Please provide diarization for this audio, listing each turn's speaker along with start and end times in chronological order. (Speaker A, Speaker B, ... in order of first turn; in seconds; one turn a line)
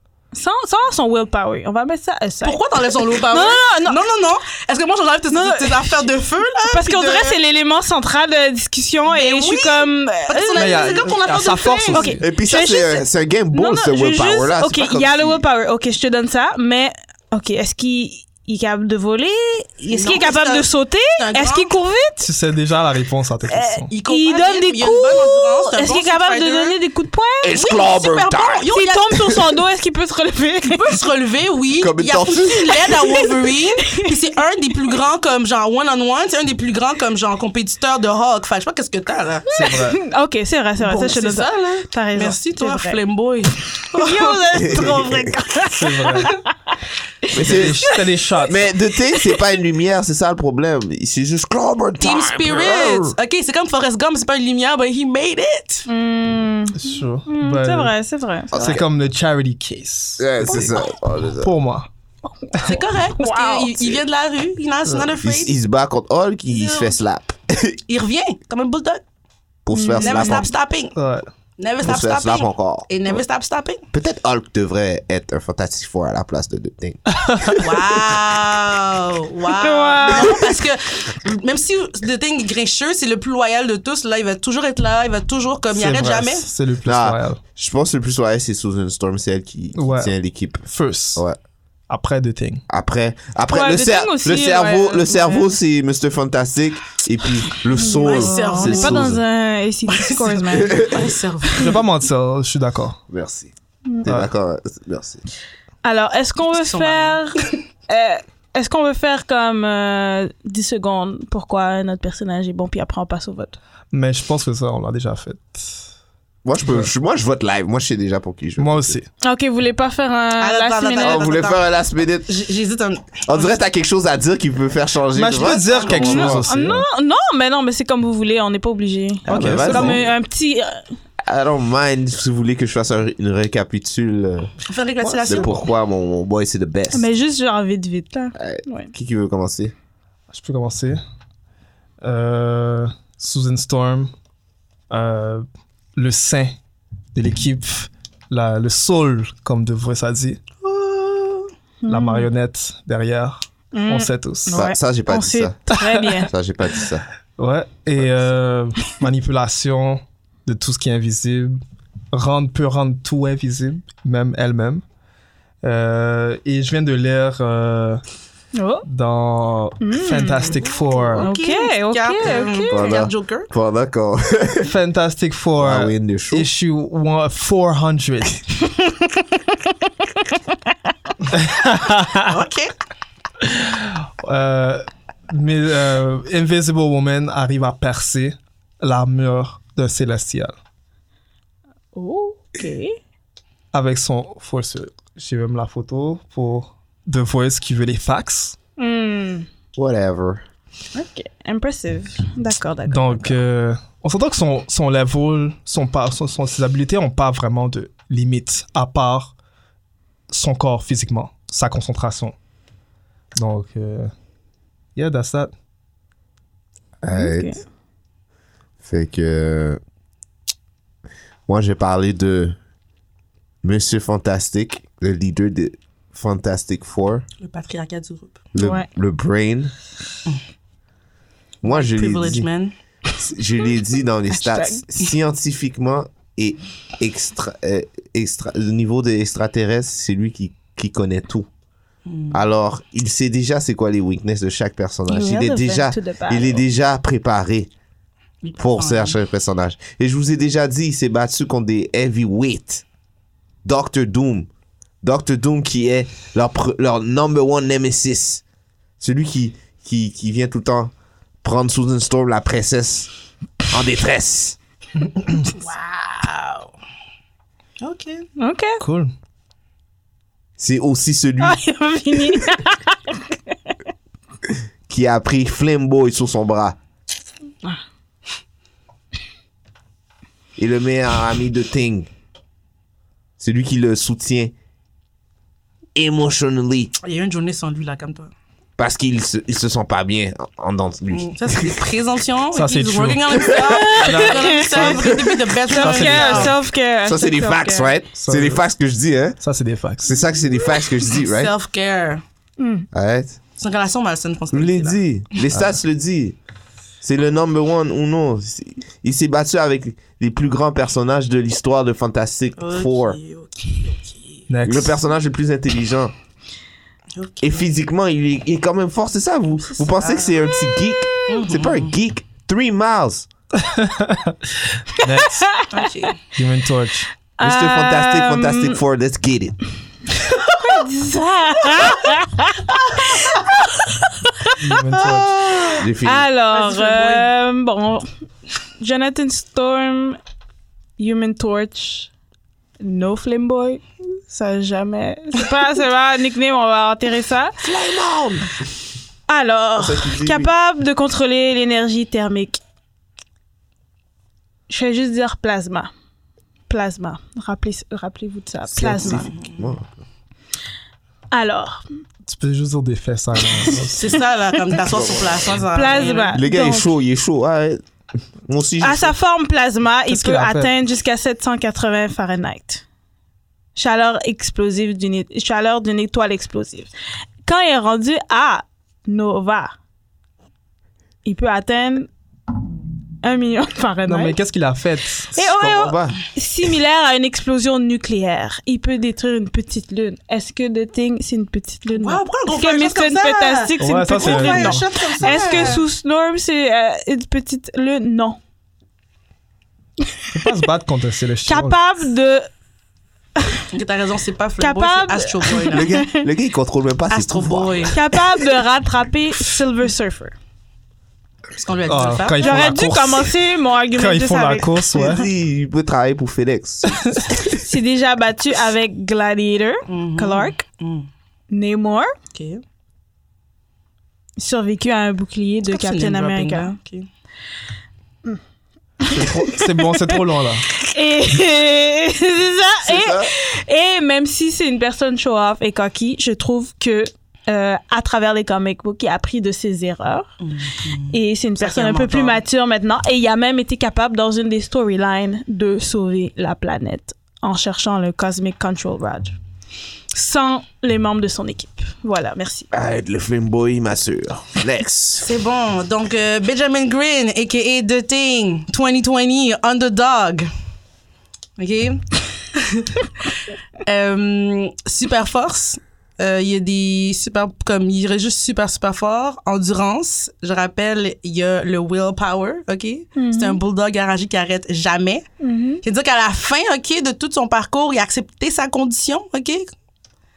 Speaker A: 0.3-4.0
Speaker B: 2.4-7.4
Speaker A: 5.3-6.0
Speaker A: 6.7-11.0
Speaker B: 9.1-12.1
Speaker C: 10.6-12.2
Speaker A: 11.9-22.3
Speaker D: 12.2-15.4
Speaker B: 19.9-21.7
Speaker C: 22.2-23.9
Speaker A: 23.5-27.6
Speaker B: 23.9-26.8
Speaker D: 27.4-28.7
Speaker B: 27.6-29.3
Speaker A: 28.7-30.9
Speaker B: 30.7-39.5
Speaker D: 31.8-32.8
Speaker A: 33.9-34.1
Speaker A: 39.5-43.0
Speaker C: 39.5-40.0
Speaker B: 40.8-44.4
Speaker A: 43.9-46.5
Speaker D: 44.5-45.4
Speaker C: 45.7-46.4
Speaker A: 47.3-48.0
Speaker D: 47.3-47.9
Speaker C: 47.4-48.6
Speaker D: 48.4-53.2
Speaker B: 52.0-55.9
Speaker A: 55.9-58.6
Speaker C: 56.7-57.9
Speaker D: 58.5-58.9
Speaker C: 58.5-60.8
Speaker D: 60.2-61.5
Speaker C: 61.4-61.9
Speaker A: 62.6-63.8
Speaker B: 62.6-65.5
Speaker D: 65.2-67.8
Speaker B: 66.5-66.9
Speaker B: 67.9-69.0
Speaker D: 69.7-70.5
Speaker A: 69.7-70.5
Speaker B: 70.0-71.0
Speaker C: 71.0-71.3
Speaker B: 71.6-73.8
Speaker D: 71.8-73.1
Speaker D: 73.9-77.8
Speaker C: 77.2-77.6
Speaker B: 77.6-86.5
Speaker A: 79.5-80.4
Speaker C: 85.7-87.4
Speaker D: 86.8-91.4
Speaker C: 89.8-90.1
Speaker C: 90.7-91.2
Speaker C: 91.9-92.6
Speaker D: 92.7-99.2
Speaker A: 93.5-95.5
Speaker A: 97.8-100.9
Speaker B: 97.8-99.1
Speaker B: 99.9-101.8
Speaker D: 100.6-101.1
Speaker C: 101.6-103.0
Speaker D: 103.1-103.5
Speaker D: 104.0-105.2
Speaker A: 105.8-113.6
Speaker B: 106.5-107.3
Speaker C: 113.9-115.8
Speaker D: 116.5-119.0
Speaker C: 118.6-119.1
Speaker A: 119.2-121.3
Speaker B: 120.4-121.7
Speaker D: 121.0-122.3
Speaker B: 122.3-123.5
Speaker D: 123.3-126.5
Speaker C: 125.2-126.8
Speaker B: 125.4-126.3
Speaker A: 126.0-130.9
Speaker D: 129.3-130.1
Speaker C: 129.3-130.0
Speaker D: 131.2-134.5
Speaker B: 134.7-135.6
Speaker C: 135.0-135.5
Speaker D: 135.3-137.1
Speaker A: 136.9-138.9
Speaker D: 138.4-139.7
Speaker C: 140.3-141.0
Speaker C: 142.0-144.1
Speaker C: 144.9-146.6
Speaker C: 147.2-150.4
Speaker B: 150.6-151.5
Speaker A: 151.8-152.3
Speaker C: 151.9-154.6
Speaker A: 153.7-156.3
Speaker D: 154.5-155.6
Speaker C: 155.7-156.2
Speaker D: 156.2-157.1
Speaker C: 157.4-161.6
Speaker C: 162.1-164.8
Speaker C: 165.6-168.0
Speaker A: 168.5-168.9
Speaker C: 168.9-171.3
Speaker A: 169.8-170.6
Speaker B: 170.4-173.5
Speaker A: 171.2-172.9
Speaker D: 172.7-174.7
Speaker C: 174.6-178.5
Speaker D: 175.6-176.5
Speaker C: 181.3-182.4
Speaker B: 182.3-182.7
Speaker C: 183.4-190.6
Speaker A: 191.9-193.0
Speaker C: 193.7-198.6
Speaker A: 198.8-199.5
Speaker D: 199.8-200.4
Speaker A: 200.9-203.4
Speaker C: 202.9-209.3
Speaker C: 210.3-212.3
Speaker C: 213.3-214.1
Speaker C: 214.9-215.5
Speaker D: 217.0-217.6
Speaker A: 217.1-217.6
Speaker D: 218.8-219.8
Speaker D: 221.5-222.6
Speaker D: 223.6-227.3
Speaker B: 227.4-228.4
Speaker D: 228.5-229.7
Speaker A: 228.6-228.9
Speaker D: 231.6-232.5
Speaker B: 231.6-232.7
Speaker D: 233.2-241.5
Speaker A: 234.3-234.8
Speaker B: 242.1-242.4
Speaker D: 242.3-247.7
Speaker A: 245.1-246.6
Speaker B: 248.4-249.2
Speaker D: 248.6-252.8
Speaker D: 253.7-254.5
Speaker D: 255.0-258.4
Speaker D: 259.0-260.9
Speaker D: 261.4-263.1
Speaker D: 263.7-264.6
Speaker C: 265.1-265.5
Speaker B: 265.5-266.7
Speaker B: 267.8-268.3
Speaker A: 268.4-268.8
Speaker C: 268.8-269.1
Speaker D: 270.6-271.6
Speaker A: 271.4-273.2
Speaker D: 274.5-276.8
Speaker D: 280.6-282.1
Speaker D: 283.4-284.5
Speaker D: 285.9-286.9
Speaker B: 287.0-288.3
Speaker D: 288.8-291.8
Speaker B: 291.1-296.6
Speaker C: 292.5-295.1
Speaker D: 293.5-293.9
Speaker A: 293.7-294.9
Speaker D: 295.1-295.4
Speaker A: 295.7-297.9
Speaker C: 295.7-296.6
Speaker D: 297.0-299.4
Speaker C: 298.2-298.7
Speaker C: 299.4-300.2
Speaker D: 300.0-301.5
Speaker B: 300.8-302.2
Speaker A: 302.6-302.9
Speaker D: 302.9-303.4
Speaker B: 303.6-305.0
Speaker D: 304.5-306.4
Speaker D: 307.0-313.2
Speaker B: 312.6-314.5
Speaker C: 314.5-315.0
Speaker D: 314.6-316.1
Speaker B: 317.2-317.7
Speaker D: 317.4-323.3
Speaker B: 319.6-320.4
Speaker B: 321.3-321.9
Speaker C: 323.6-325.5
Speaker A: 325.1-325.8
Speaker B: 325.7-326.3
Speaker C: 326.3-327.1
Speaker A: 327.4-328.8
Speaker D: 327.4-329.6
Speaker A: 330.6-334.5
Speaker C: 334.6-335.5
Speaker B: 334.9-335.9
Speaker A: 335.6-338.1
Speaker D: 335.8-336.3
Speaker B: 336.5-337.3
Speaker A: 338.8-340.2
Speaker A: 341.0-342.1
Speaker A: 342.8-347.5
Speaker D: 347.6-348.5
Speaker A: 349.3-352.6
Speaker D: 349.8-350.5
Speaker A: 354.7-355.9
Speaker A: 356.7-359.3
Speaker D: 358.7-360.0
Speaker B: 359.1-359.6
Speaker A: 361.3-361.8
Speaker C: 362.2-364.0
Speaker B: 363.9-366.4
Speaker D: 364.9-367.8
Speaker A: 365.7-366.9
Speaker D: 368.4-369.1
Speaker A: 368.8-372.8
Speaker C: 370.1-370.7
Speaker A: 373.8-376.9
Speaker A: 377.5-379.8
Speaker A: 381.2-382.1
Speaker A: 383.2-384.4
Speaker C: 384.1-385.3
Speaker A: 385.3-398.4
Speaker D: 385.4-386.2
Speaker B: 391.9-395.9
Speaker C: 393.8-395.8
Speaker C: 400.3-401.8
Speaker A: 401.5-402.5
Speaker A: 403.4-403.6
Speaker B: 403.7-405.9
Speaker A: 404.6-406.3
Speaker D: 405.7-408.0
Speaker B: 407.1-408.0
Speaker A: 407.9-410.4
Speaker B: 411.6-412.8
Speaker C: 411.9-413.4
Speaker A: 412.4-415.1
Speaker C: 413.9-415.3
Speaker D: 414.9-417.4
Speaker C: 416.9-417.2
Speaker A: 417.6-420.6
Speaker B: 419.9-421.1
Speaker A: 421.5-422.1
Speaker B: 422.3-422.6
Speaker A: 424.4-426.8
Speaker B: 425.7-427.1
Speaker A: 429.0-430.1
Speaker C: 429.1-430.6
Speaker A: 430.8-440.3
Speaker D: 432.8-433.3
Speaker B: 440.4-442.4
Speaker A: 441.1-449.3
Speaker A: 450.1-452.7
Speaker D: 452.7-455.3
Speaker B: 455.2-460.5
Speaker B: 461.6-463.3
Speaker B: 463.9-475.3
Speaker A: 473.2-473.6
Speaker A: 475.4-475.8
Speaker B: 475.8-479.6